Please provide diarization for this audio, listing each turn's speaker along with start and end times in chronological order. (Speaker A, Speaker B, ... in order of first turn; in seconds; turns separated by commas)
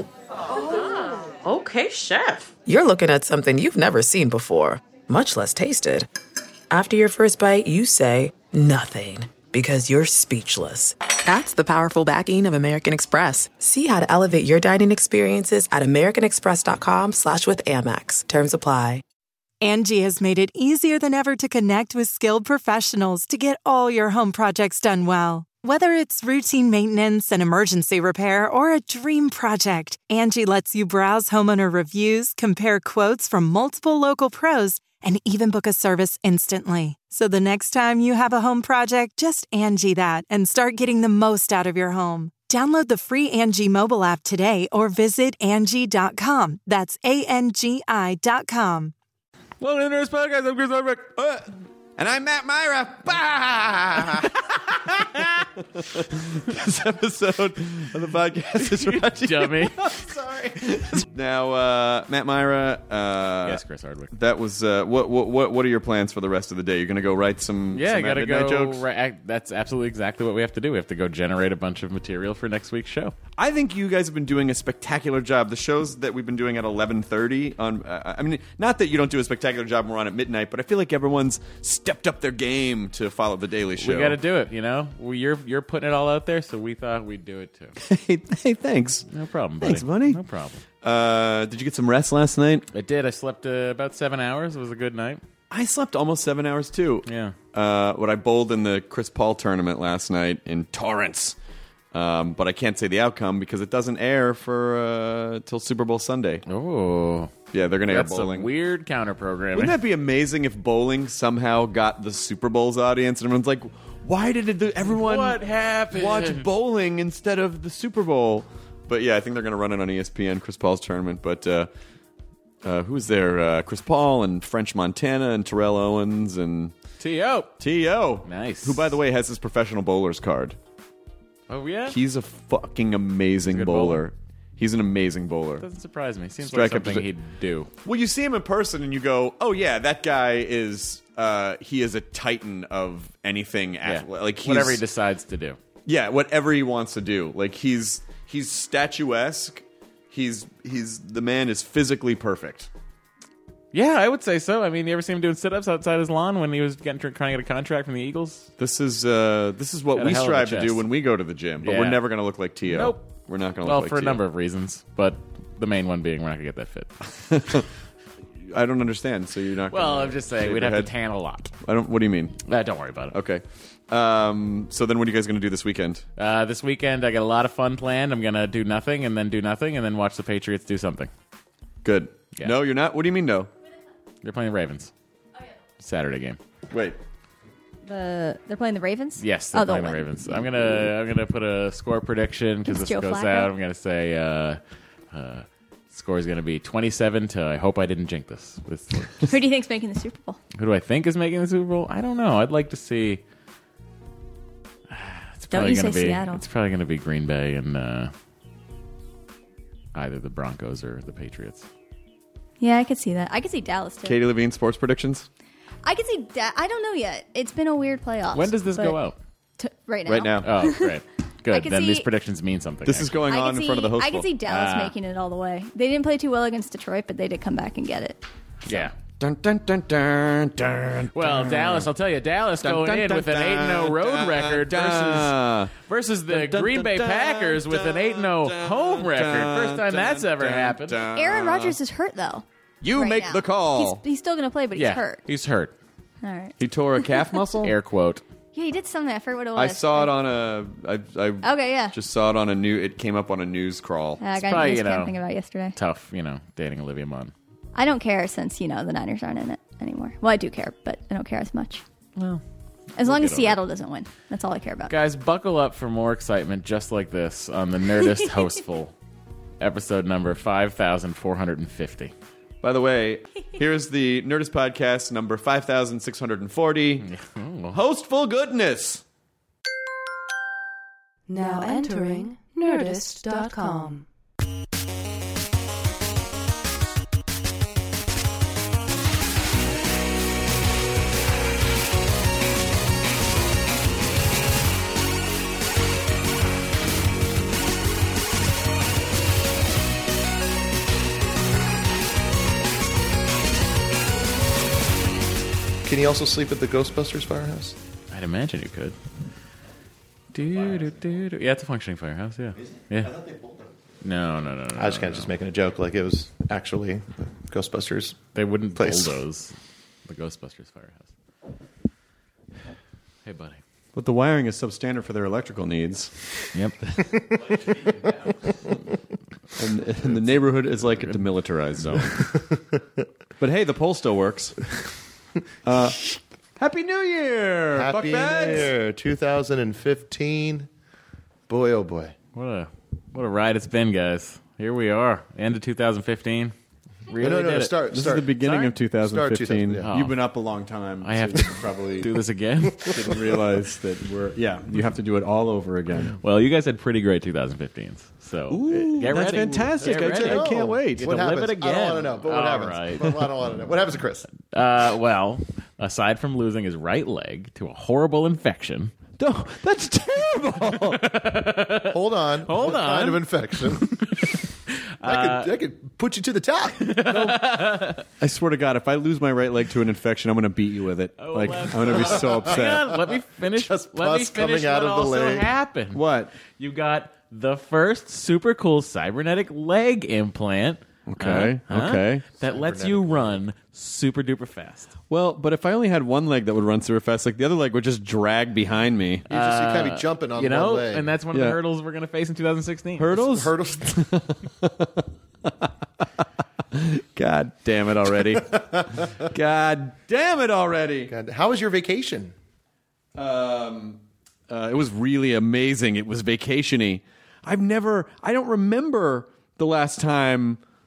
Speaker A: 0.5-2.5, Speaker B: 2.6-6.1, Speaker B: 6.7-19.0, Speaker C: 19.6-48.9, Speaker D: 49.6-51.2, Speaker E: 51.2-51.5, Speaker E: 52.0-63.6, Speaker D: 58.5-60.0, Speaker D: 63.4-64.1, Speaker E: 64.1-68.8, Speaker D: 67.7-73.2, Speaker E: 73.4-84.2, Speaker D: 83.8-87.8, Speaker E: 87.8-89.1, Speaker D: 89.1-90.6, Speaker E: 89.6-90.2, Speaker E: 90.8-92.7, Speaker D: 92.7-95.2, Speaker E: 95.5-101.3, Speaker D: 97.1-97.3, Speaker E: 101.9-106.4, Speaker D: 106.5-109.8, Speaker E: 107.5-108.5, Speaker E: 109.5-121.7, Speaker D: 114.9-116.5, Speaker E: 122.6-126.7, Speaker D: 127.0-127.5, Speaker E: 127.6-130.6, Speaker D: 128.2-128.9, Speaker D: 131.5-132.0, Speaker E: 131.9-135.7, Speaker D: 133.5-134.0, Speaker D: 135.6-137.7, Speaker E: 136.4-137.1, Speaker E: 137.8-144.8, Speaker D: 143.8-145.6, Speaker E: 145.9-152.7, Speaker D: 153.7-158.5, Speaker E: 158.6-164.2, Speaker D: 160.0-160.8, Speaker D: 161.6-162.0, Speaker D: 162.7-163.1, Speaker D: 163.6-166.9, Speaker E: 167.3-167.7, Speaker E: 168.5-170.9, Speaker D: 169.7-171.5, Speaker E: 171.6-172.4, Speaker D: 172.4-173.1, Speaker E: 173.1-176.0, Speaker D: 176.2-181.1, Speaker E: 181.8-183.5, Speaker D: 184.2-184.9, Speaker D: 185.8-186.4, Speaker E: 186.7-187.0, Speaker F: 187.9-190.1, Speaker D: 189.2-194.6, Speaker F: 192.7-193.5, Speaker D: 195.1-199.3, Speaker F: 199.3-200.4, Speaker D: 200.6-203.2, Speaker D: 204.9-208.1, Speaker F: 205.5-206.4, Speaker D: 209.9-211.7, Speaker F: 212.6-214.2, Speaker E: 214.0-215.3, Speaker F: 215.8-219.0, Speaker D: 218.3-219.2, Speaker F: 219.6-222.1, Speaker E: 220.1-220.5, Speaker D: 220.4-223.2, Speaker E: 222.9-224.3, Speaker F: 223.3-228.2, Speaker D: 224.5-224.9, Speaker D: 228.7-228.9, Speaker E: 228.8-231.9, Speaker D: 231.1-241.0, Speaker E: 232.6-235.7, Speaker E: 236.3-241.8, Speaker F: 241.1-245.2, Speaker E: 242.8-244.0, Speaker D: 244.8-245.7, Speaker F: 246.2-247.2, Speaker E: 246.6-247.8, Speaker D: 247.6-248.2, Speaker F: 248.5-250.1, Speaker E: 249.6-254.2, Speaker F: 251.4-251.9, Speaker F: 254.2-255.8, Speaker D: 254.4-255.1, Speaker D: 255.8-257.3, Speaker F: 257.8-261.8, Speaker D: 262.2-262.4, Speaker F: 262.9-264.9, Speaker D: 263.0-263.6, Speaker D: 264.9-268.9, Speaker D: 269.6-272.1, Speaker E: 272.6-277.1, Speaker D: 277.0-277.8, Speaker E: 277.7-279.0, Speaker G: 281.3-284.1, Speaker H: 305.8-307.8, Speaker D: 308.1-308.9, Speaker D: 310.3-313.2, Speaker D: 314.0-315.3, Speaker H: 314.8-318.2, Speaker D: 318.3-319.5, Speaker H: 318.8-319.1, Speaker D: 320.1-321.1, Speaker D: 323.2-323.6, Speaker E: 323.9-327.0, Speaker D: 326.5-326.8, Speaker D: 327.5-328.3, Speaker E: 329.6-332.4, Speaker H: 332.3-332.8, Speaker E: 333.4-334.6, Speaker E: 335.6-338.7, Speaker H: 337.7-340.7, Speaker H: 341.5-342.1, Speaker D: 342.3-346.5, Speaker D: 347.1-348.7, Speaker H: 347.2-348.4, Speaker E: 347.9-352.1, Speaker H: 349.0-349.9, Speaker D: 349.9-350.2, Speaker D: 351.0-353.1, Speaker E: 352.9-356.2, Speaker D: 356.2-363.2, Speaker E: 358.5-361.1, Speaker H: 359.8-364.3, Speaker D: 364.5-368.9, Speaker E: 369.2-371.0, Speaker D: 370.9-373.3, Speaker H: 371.9-374.2, Speaker D: 375.0-375.5, Speaker H: 375.0-376.9, Speaker D: 376.8-378.0, Speaker E: 377.1-382.9, Speaker D: 381.2-394.9, Speaker H: 383.5-385.5, Speaker E: 385.9-386.3, Speaker E: 391.1-392.2, Speaker H: 392.4-393.4, Speaker E: 395.1-399.2, Speaker H: 399.3-401.1, Speaker D: 399.3-403.1, Speaker E: 401.3-401.6, Speaker E: 403.0-405.7, Speaker H: 403.1-403.9, Speaker E: 406.7-411.1, Speaker H: 411.1-412.3, Speaker E: 413.1-420.6